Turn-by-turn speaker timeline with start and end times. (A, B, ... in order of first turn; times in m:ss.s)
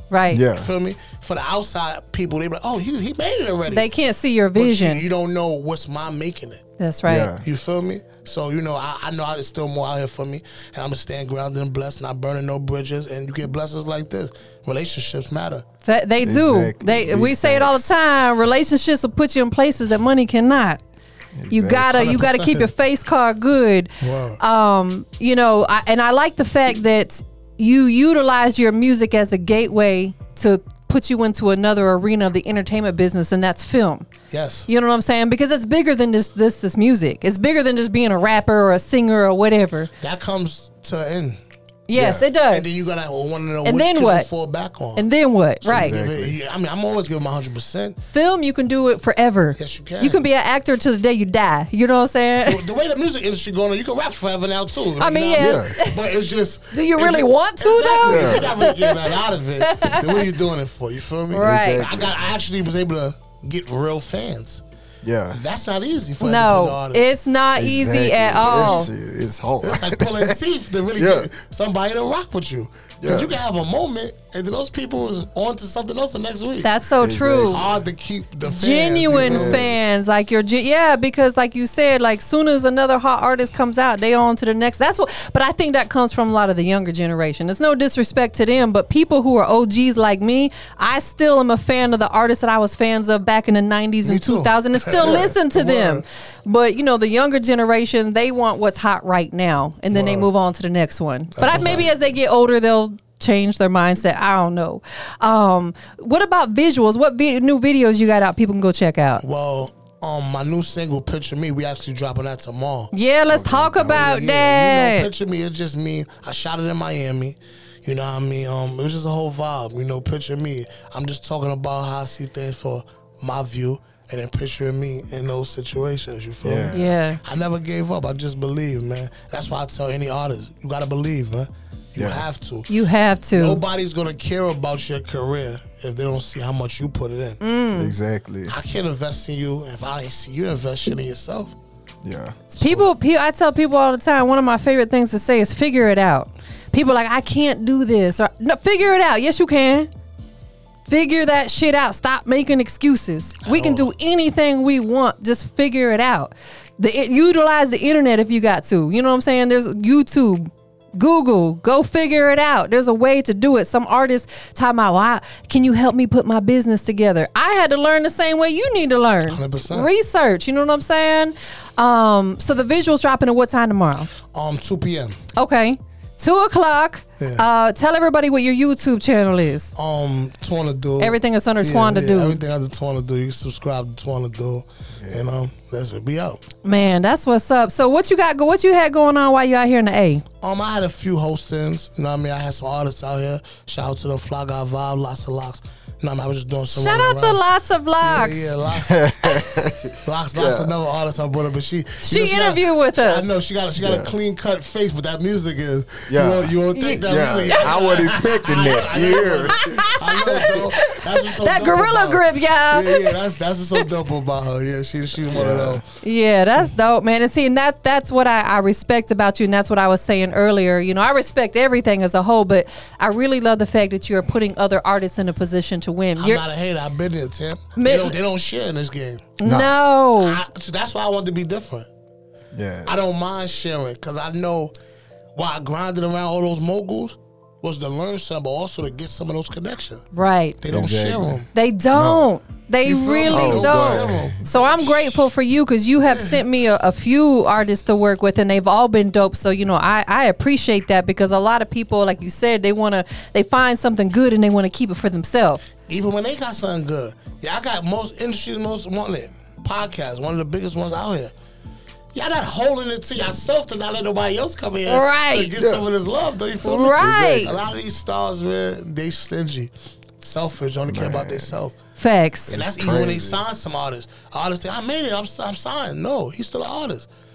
0:00.1-0:00.4 A
0:00.3-0:00.7 B
0:00.4-0:03.9 C
0:03.7-0:05.0 A
0:04.6-0:06.6 C
0:06.8-0:07.3 A
0:07.0-0:07.4 B
0:07.4-0:15.6 C
0:15.8-0:20.8 A
0:16.2-0:18.0 B
0:21.4-0:22.1 B
0:21.5-0:34.1 A
0:21.9-0:22.7 C
0:24.0-0:24.4 C
0:34.3-0:34.7 C
0:34.7-0:39.9 A
0:40.0-0:41.4 C
0:41.9-0:42.8 A
0:41.9-0:42.2 B
0:42.5-0:45.1 C
0:43.6-0:44.3 A
0:45.0-0:46.0 A
0:45.6-0:48.0 C
0:45.6-0:46.4 B
0:48.1-0:52.6 A
0:49.6-0:50.2 C
0:52.4-1:04.6 C
0:55.0-0:56.0 A
0:55.4-0:55.8 B
0:56.7-1:00.3 A
0:58.1-0:58.5 B
1:01.3-1:01.9 A
1:01.3-1:02.2 B
1:05.0-1:05.4 B
1:05.3-1:07.0 C
1:06.2-1:08.9 A
1:07.6-1:10.4 B
1:08.3-1:08.9 C
1:09.6-1:16.7 C
1:11.0-1:11.3 B
1:13.0-1:13.4 B
1:16.6-1:17.6 A
1:17.0-1:17.8 B
1:17.4-1:19.8 C
1:18.4-1:49.2 A
1:19.1-1:19.7 B
1:34.0-1:36.0 C
1:39.9-1:40.3 C
1:41.4-1:41.9 C
1:41.5-1:41.8 B
1:49.2-1:52.9 C
1:52.9-1:55.1 A
1:53.3-1:54.1 B
1:53.8-2:12.7 C
2:06.4-2:06.8 B
2:06.7-2:07.2 A
2:12.0-2:12.2 B
2:12.7-2:13.6 A
2:13.4-2:17.4 C
2:17.4-2:18.0 A
2:17.8-2:18.5 B
2:18.5-2:21.5 C
2:22.0-2:22.9 B
2:22.5-2:29.9 A
2:30.9-2:54.1 A
2:33.4-2:33.9 C
2:49.3-2:49.9 C
2:54.3-2:55.2 C
2:55.4-2:59.7 A
2:57.2-2:57.4 C
2:59.8-3:06.4 C
3:01.0-3:02.4 A
3:05.0-3:05.3 B
3:06.6-3:10.2 A
3:10.4-3:17.4 C
3:16.7-3:18.5 A
3:18.0-3:19.1 C
3:18.7-3:20.7 B
3:20.0-3:35.8 C
3:22.0-3:23.3 A
3:23.8-3:24.1 B
3:26.1-3:30.7 B
3:26.7-3:27.8 A
3:29.3-3:33.2 A
3:35.3-3:35.8 B
3:36.0-3:46.4 A
3:46.2-3:49.3 C
3:47.8-3:48.2 A
3:49.4-3:50.4 A
3:49.4-3:49.7 B
3:50.2-3:51.9 C
3:52.5-3:52.9 B
3:52.9-3:54.7 C
3:55.4-4:00.1 C
4:00.1-4:00.6 A
4:00.6-4:01.5 C
4:00.7-4:01.4 B
4:01.5-4:15.6 A
4:01.9-4:02.3 B
4:02.8-4:05.2 C
4:03.3-4:04.4 B
4:06.0-4:06.4 C
4:15.9-4:21.3 C
4:22.1-4:29.7 C
4:24.9-4:25.5 A
4:25.6-4:25.8 B
4:26.6-4:27.5 A
4:27.0-4:27.6 B
4:30.2-4:31.7 C
4:30.9-4:31.6 B
4:32.0-4:32.6 A
4:32.5-4:37.1 C
4:32.5-4:33.4 B